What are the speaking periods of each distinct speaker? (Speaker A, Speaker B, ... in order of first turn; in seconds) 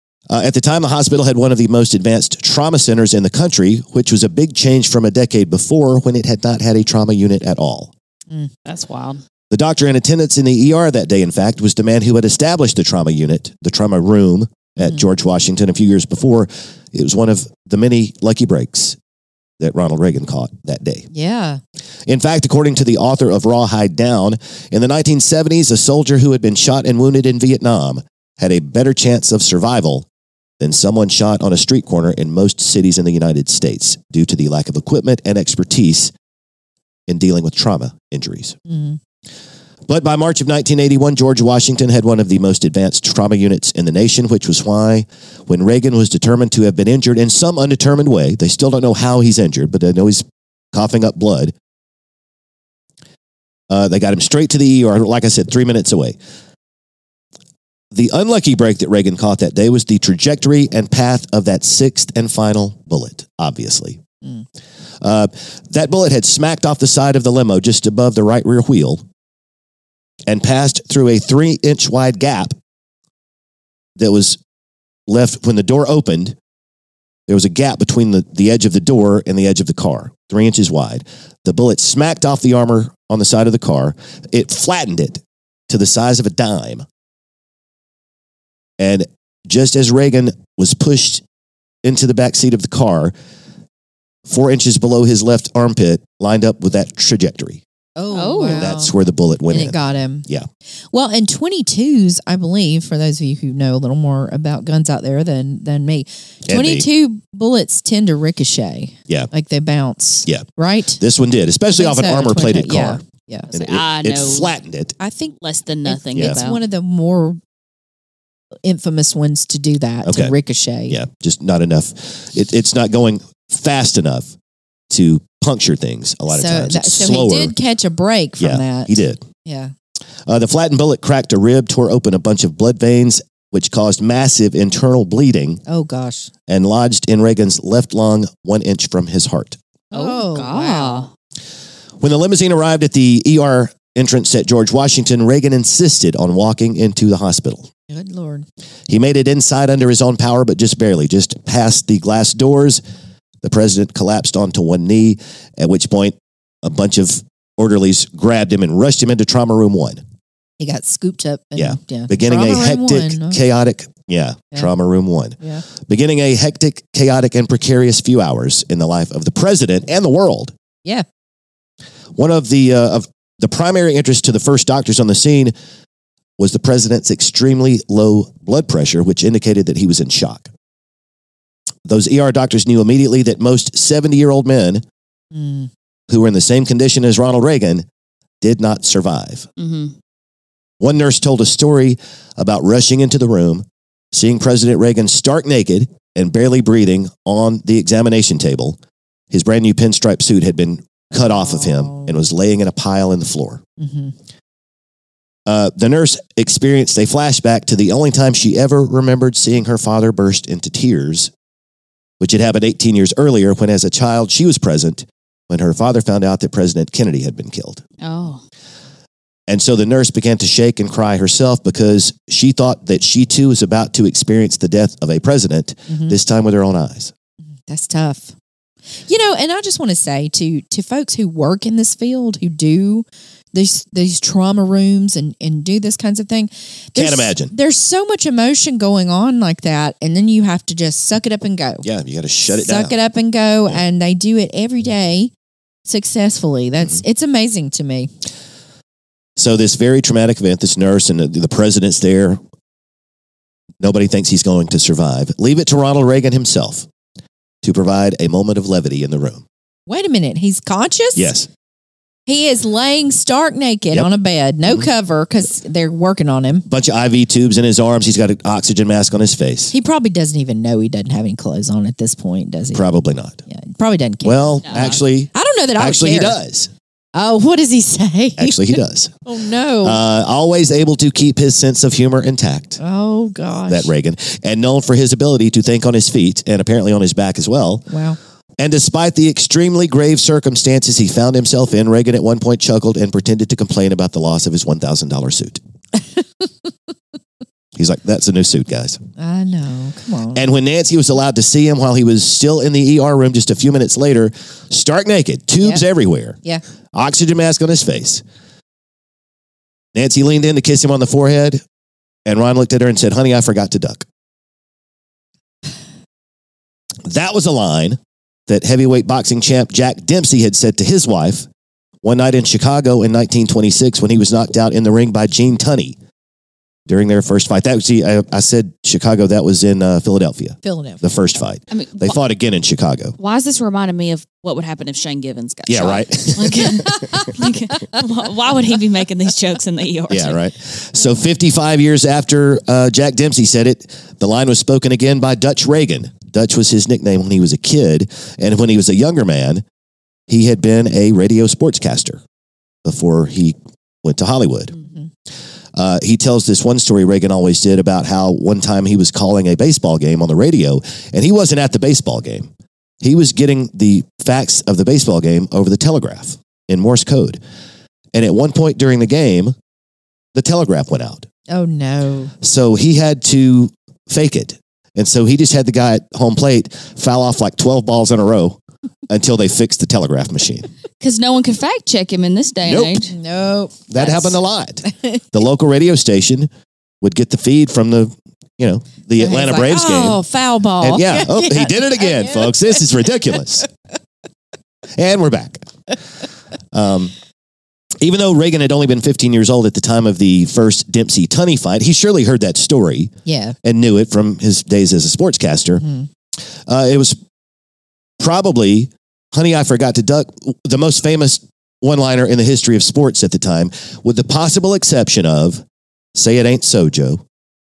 Speaker A: 0.3-7.9, 9.5-19.0, 19.6-21.1, 22.1-30.1, 30.6-36.1, 37.1-38.6, 39.9-51.5, 53.7-56.2, 57.9-64.0, 65.0-69.0, 70.3-72.5, 74.0-74.4, 75.1-76.4, 77.3-86.8, 88.8-91.2, 91.8-93.1, 94.3-97.6, 98.5-100.5, 106.5-106.9, 111.0-113.0, 113.5-115.0, 116.1-116.4, 120.0-120.3, 120.9-124.3, 124.9-127.5, 128.4-129.2, 130.3-135.6, 136.5-139.6, 142.0-147.7, 148.9-152.8, 153.4-160.0, 161.6-170.5, 172.2-175.5, 176.4-180.5, 181.9-184.8, 186.1-187.9, 188.4-189.5, 190.8-198.8, 199.3-203.6, 205.5-211.3, 212.2-217.8, 219.5-227.1, 236.9-237.5, 241.8-242.9, 249.4-252.4, 253.8-256.9, 257.6-259.4, 261.1-261.5, 266.7-269.7, 272.7-273.4, 274.2-276.7, 278.4-279.1, 279.8-282.8, 283.7-287.9, 288.6-295.6, 297.8-299.0, 300.3-306.4, 306.9-308.2, 309.9-311.6, 312.2-314.1, 317.1-321.5, 322.0-326.0, 326.9-333.2, 335.7-337.0, 340.1-349.6, 350.3-352.2, 352.9-354.8, 355.8-362.5, 363.0-367.4, 368.1-369.6, 370.4-371.3, 372.4-380.7, 382.6-383.1, 383.9-386.5, 387.0-390.2, 390.8-393.7, 394.9-395.6, 396.7-397.1, 398.0-403.1, 403.6-405.9, 406.7-407.2, 408.2-415.6, 416.1-417.2
Speaker B: 8.7-9.2, 98.1-98.7, 113.5-114.5, 115.4-116.6, 139.9-141.1, 189.6-189.9, 218.0-218.4, 274.6-275.0, 331.7-332.2, 333.2-340.4, 381.0-383.1
Speaker C: 21.1-21.6, 38.7-39.0, 98.0-98.9, 99.5-100.3, 100.9-111.0, 111.7-113.5, 115.0-117.4, 118.6-121.0, 126.3-129.7, 135.7-136.3, 139.9-141.1, 147.9-148.4, 160.6-163.4, 185.3-185.7, 201.2-202.2, 203.8-204.1, 225.9-226.2, 227.7-228.3, 229.1-241.8, 242.5-245.3, 245.9-248.1, 259.9-261.3, 262.3-266.7, 269.7-272.8, 273.5-276.4, 277.1-280.0, 282.8-283.9, 287.9-288.2, 299.2-300.5, 330.6-331.0, 371.5-372.3, 383.1-384.4, 384.9-385.2, 389.2-392.6, 403.3-403.6